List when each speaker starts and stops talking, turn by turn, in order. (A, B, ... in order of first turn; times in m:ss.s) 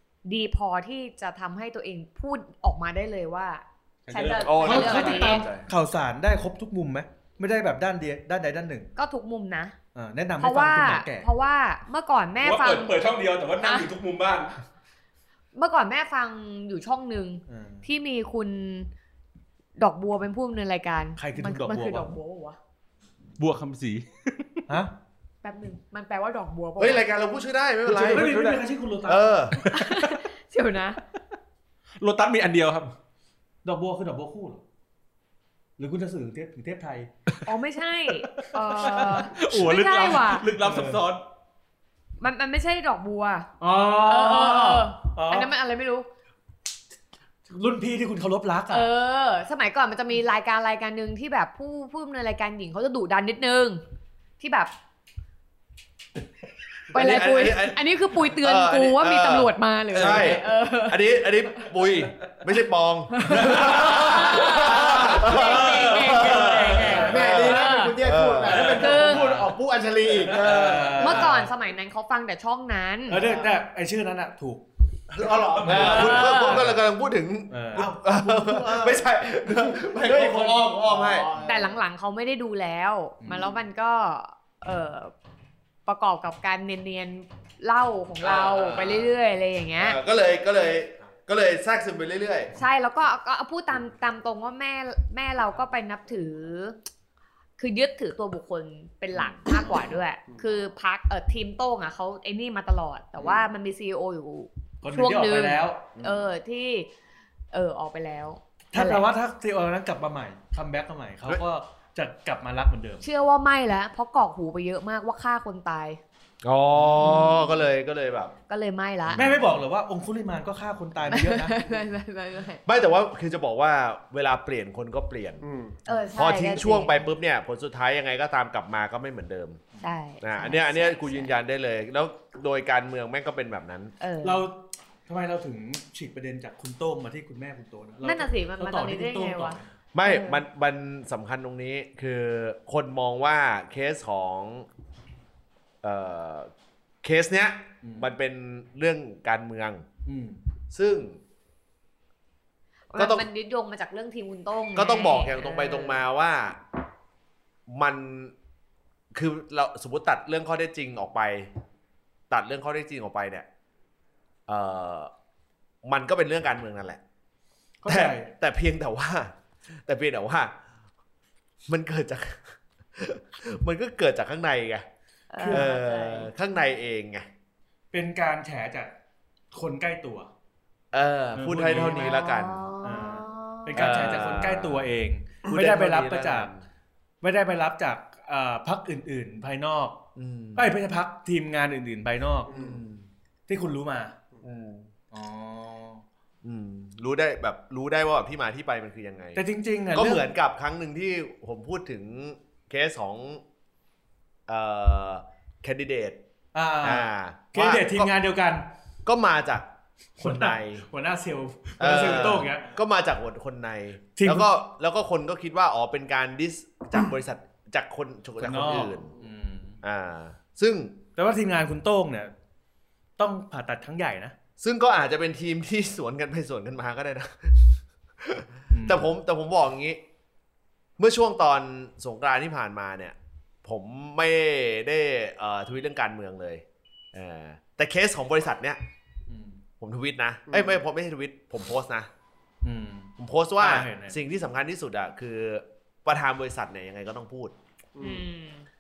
0:00.2-0:05.5 A
0:04.1-0:05.1 B
0:04.4-0:05.7 C
0:04.6-0:08.9 D
0:09.0-0:09.8 A
0:10.0-0:11.3 D
0:10.4-0:13.0 A
0:12.4-0:14.6 B
0:13.6-0:13.9 A
0:15.5-0:18.9 A
0:17.5-0:17.9 D
0:19.8-0:22.6 A
0:21.2-0:22.1 D
0:23.4-0:24.6 B
0:25.4-0:27.1 A
0:26.8-0:29.6 C
0:27.9-0:29.7 D
0:28.1-0:28.6 B
0:29.7-0:31.0 A
0:32.0-0:32.9 B
0:33.6-0:34.6 D
0:35.8-0:37.1 D
0:37.4-0:40.5 A
0:38.6-0:41.2 B
0:40.6-0:41.0 D
0:42.2-0:43.5 A
0:43.6-0:45.5 D
0:44.0-0:46.1 A
0:47.5-0:48.9 D
0:48.7-0:53.8 A
0:54.4-0:54.7 A
0:56.9-1:01.6 A
0:56.9-1:08.8 C
1:00.0-1:00.4 B
1:03.1-1:08.0 A
1:03.3-1:04.2 B
1:04.9-1:07.1 B
1:06.4-1:11.2 E
1:08.6-1:09.3 A
1:09.1-1:09.4 D
1:10.3-1:11.0 B
1:10.4-1:11.5 D
1:11.0-1:13.2 A
1:13.1-1:14.6 D
1:13.2-1:13.5 E
1:15.1-1:16.6 E
1:15.6-1:21.5 C
1:15.8-1:16.6 A
1:17.5-1:17.9 D
1:17.7-1:21.8 E
1:21.4-1:25.1 A
1:23.2-1:23.6 D
1:25.9-1:30.0 A
1:28.2-1:29.1 C
1:29.8-1:32.5 C
1:32.6-1:36.8 A
1:37.6-1:46.9 A
1:44.8-1:45.9 D
1:46.0-1:46.3 C
1:47.5-1:49.1 A
1:48.7-1:53.0 D
1:53.0-1:56.0 A
1:56.4-1:58.3 C
1:57.0-1:57.6 A
1:58.5-1:59.3 A
1:59.1-1:59.4 C
1:59.2-2:01.6 D
2:01.1-2:02.6 A
2:02.6-2:05.4 C
2:05.4-2:05.8 E
2:05.9-2:07.0 A
2:06.2-2:09.6 C
2:09.8-2:11.3 A
2:10.2-2:13.9 C
2:14.0-2:14.5 A
2:14.2-2:19.6 D
2:18.0-2:20.4 A
2:19.9-2:24.7 C
2:25.8-2:26.5 C
2:27.0-2:29.9 C
2:27.8-2:28.1 D
2:30.0-2:30.4 D
2:30.7-2:31.2 C
2:32.9-2:36.0 A
2:33.0-2:33.3 C
2:34.8-2:36.6 C
2:37.7-2:38.3 C
2:39.1-2:41.5 C
2:42.3-2:43.5 C
2:44.5-2:45.1 C
2:45.8-2:47.0 C
2:47.8-2:48.3 D
2:47.9-2:50.6 C
2:51.7-2:54.9 C
2:55.3-2:56.3 A
2:55.4-2:55.7 D
2:55.5-2:57.3 C
2:57.9-2:58.9 D
2:59.5-3:00.3 D
3:00.9-3:02.6 C
3:01.4-3:02.1 B
3:01.4-3:02.0 D
3:01.8-3:04.1 A
3:02.8-3:06.5 D
3:03.8-3:04.9 C
3:05.5-3:06.6 C
3:07.2-3:10.0 D
3:10.2-3:10.7 C
3:10.6-3:12.5 D
3:12.5-3:12.8 E
3:12.5-3:13.1 C
3:13.5-3:14.2 D
3:14.4-3:14.9 C
3:15.1-3:16.0 D
3:16.4-3:19.4 C
3:19.4-3:20.3 D
3:19.9-3:23.4 C
3:24.5-3:26.2 C
3:26.5-3:28.7 D
3:26.8-3:28.1 C
3:29.0-3:29.7 C
3:30.2-3:30.9 C
3:30.2-3:32.7 D
3:31.8-3:39.2 C
3:34.2-3:34.5 D
3:38.4-3:39.8 D
3:39.8-3:41.0 C
3:41.2-3:42.3 D
3:43.2-3:44.4 D
3:44.6-3:50.0 C
3:48.7-3:49.1 D
3:51.0-3:58.8 C
3:59.3-3:59.6 D
3:59.8-4:02.1 C
4:00.5-4:00.8 E
4:02.6-4:04.2 D
4:03.2-4:07.5 C
4:08.0-4:08.2 E
4:08.0-4:08.7 A